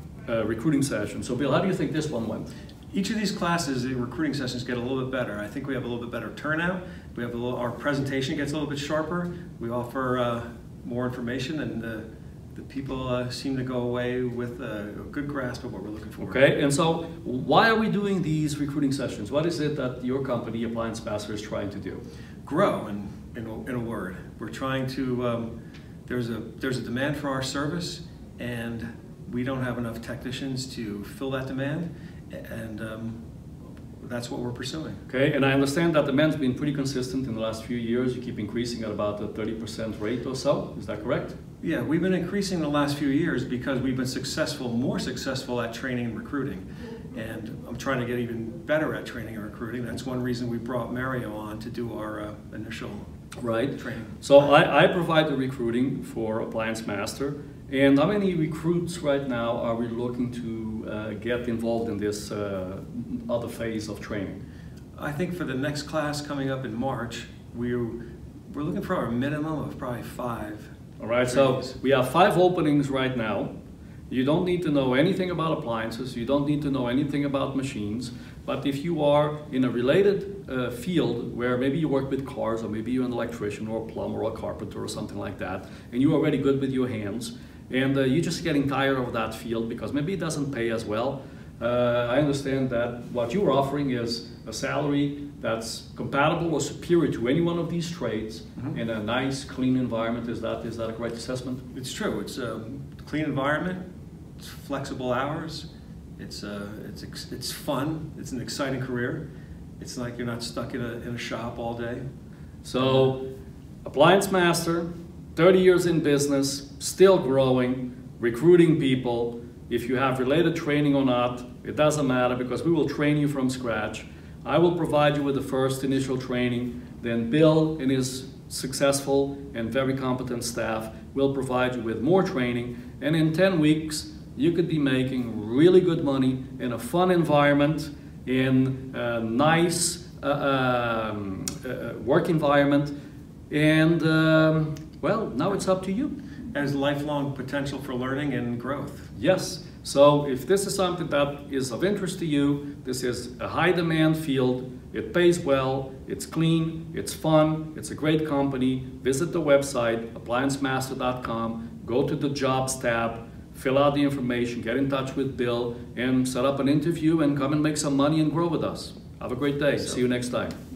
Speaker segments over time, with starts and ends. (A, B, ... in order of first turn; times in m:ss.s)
0:00.2-0:02.5 A
0:02.9-0:16.4 B
0:16.2-0:22.0 A
0:22.4-0:25.5 B
0:26.1-0:33.2 B
0:34.0-0:35.0 B
0:35.1-0:41.4 A
0:41.6-0:53.1 B
0:53.4-1:04.4 A
0:53.8-0:54.2 B
1:05.0-1:10.7 B
1:11.0-1:13.5 A
1:11.2-1:11.7 B
1:14.1-1:41.6 A
1:41.7-1:43.8 B
1:44.4-1:49.2 B
1:49.8-1:52.0 B
1:52.6-1:53.2 A
1:53.8-2:22.9 A
2:23.5-2:26.2 A
2:26.5-2:29.1 B
2:29.1-2:50.6 A